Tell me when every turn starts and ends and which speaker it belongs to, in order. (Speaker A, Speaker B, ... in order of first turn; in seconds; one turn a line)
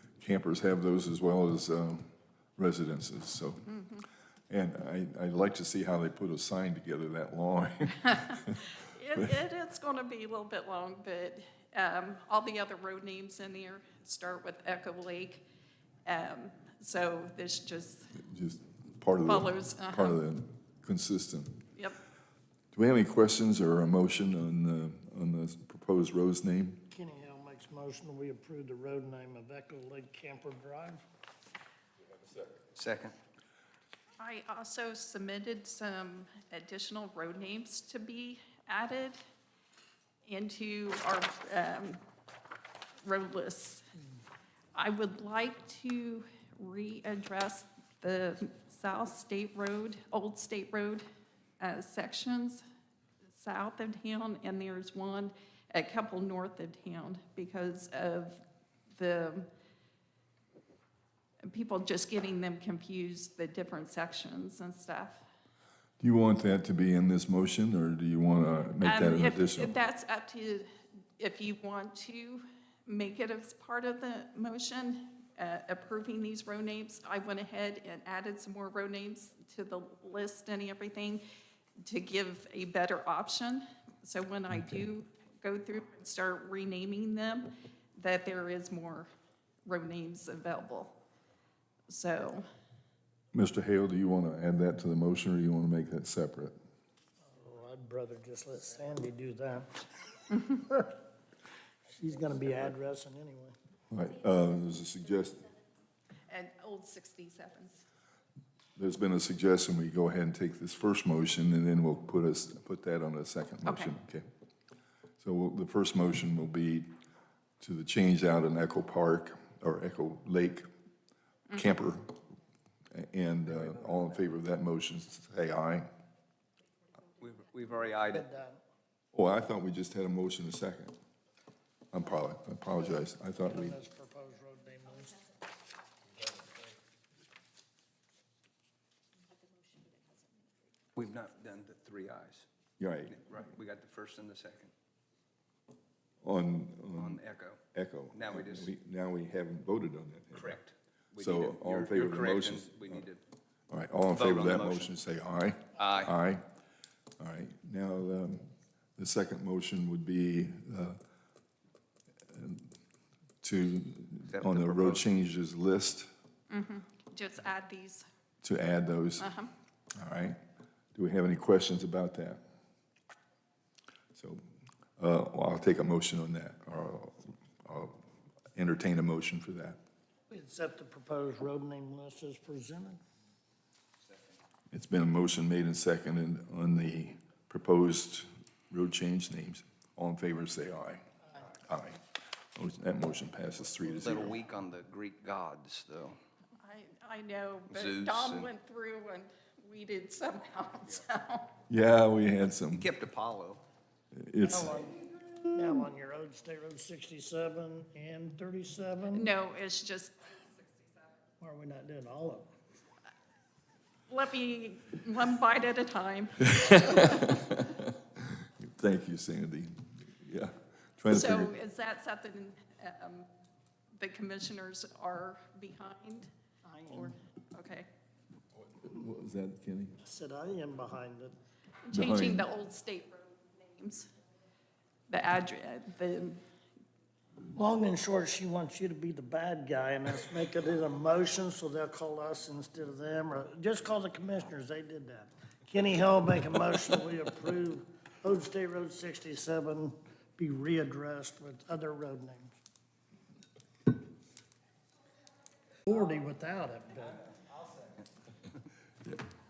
Speaker A: 0.2-3.7
Speaker B: 3.7-4.0
Speaker A: 4.5-8.7
Speaker B: 8.1-15.4
Speaker B: 16.0-18.1
Speaker A: 18.2-21.6
Speaker B: 19.2-20.2
Speaker A: 22.7-26.8
Speaker C: 26.9-31.0
Speaker D: 32.7-33.1
Speaker B: 34.2-39.2
Speaker B: 40.2-42.0
Speaker B: 43.0-43.8
Speaker B: 44.7-51.0
Speaker B: 51.6-52.6
Speaker B: 53.3-58.4
Speaker B: 58.9-59.5
Speaker B: 61.4-65.2
Speaker A: 66.0-69.7
Speaker B: 68.8-81.2
Speaker B: 81.8-89.1
Speaker A: 84.5-84.8
Speaker B: 89.7-90.9
Speaker B: 91.9-92.4
Speaker A: 93.3-96.5
Speaker C: 97.3-100.9
Speaker C: 101.9-103.5
Speaker A: 103.9-105.5
Speaker B: 106.3-107.8
Speaker A: 108.8-114.2
Speaker B: 113.6-113.9
Speaker A: 115.2-116.9
Speaker A: 117.6-120.6
Speaker A: 121.5-122.2
Speaker A: 122.9-125.9
Speaker D: 127.2-128.2
Speaker C: 128.1-128.6
Speaker A: 129.1-130.9
Speaker A: 131.9-133.8
Speaker C: 133.4-135.2
Speaker D: 140.9-142.5
Speaker A: 142.8-143.2
Speaker D: 143.1-144.7
Speaker A: 146.2-147.2
Speaker D: 146.9-147.6
Speaker A: 147.7-150.6
Speaker D: 148.1-148.7
Speaker D: 150.3-153.2
Speaker A: 151.2-153.0
Speaker A: 153.7-156.4
Speaker D: 154.1-154.9
Speaker D: 155.8-156.1
Speaker A: 157.2-161.0
Speaker A: 162.3-162.7
Speaker A: 163.4-166.1
Speaker D: 164.3-165.0
Speaker B: 166.5-168.0
Speaker A: 168.4-169.3
Speaker B: 169.2-169.5
Speaker A: 169.9-170.4
Speaker A: 170.9-172.4
Speaker A: 174.1-174.4
Speaker A: 175.0-178.0
Speaker A: 178.5-179.8
Speaker C: 180.3-183.0
Speaker D: 184.0-184.3
Speaker A: 184.7-191.0
Speaker A: 191.6-192.0
Speaker A: 192.5-194.4
Speaker D: 194.0-196.2
Speaker B: 196.6-201.5
Speaker D: 197.7-198.5
Speaker A: 201.7-202.9
Speaker D: 202.7-203.6
Speaker A: 204.1-204.8
Speaker C: 204.4-209.3
Speaker B: 209.1-211.0
Speaker C: 211.4-212.5
Speaker B: 214.1-217.3
Speaker A: 216.5-221.5
Speaker B: 221.1-223.3
Speaker B: 224.0-226.3
Speaker C: 226.6-227.2
Speaker B: 226.9-227.9
Speaker A: 228.6-230.0
Speaker C: 230.0-231.3
Speaker B: 231.8-234.1
Speaker A: 231.9-232.5
Speaker B: 235.1-236.4
Speaker C: 237.5-252.5
Speaker C: 255.8-257.3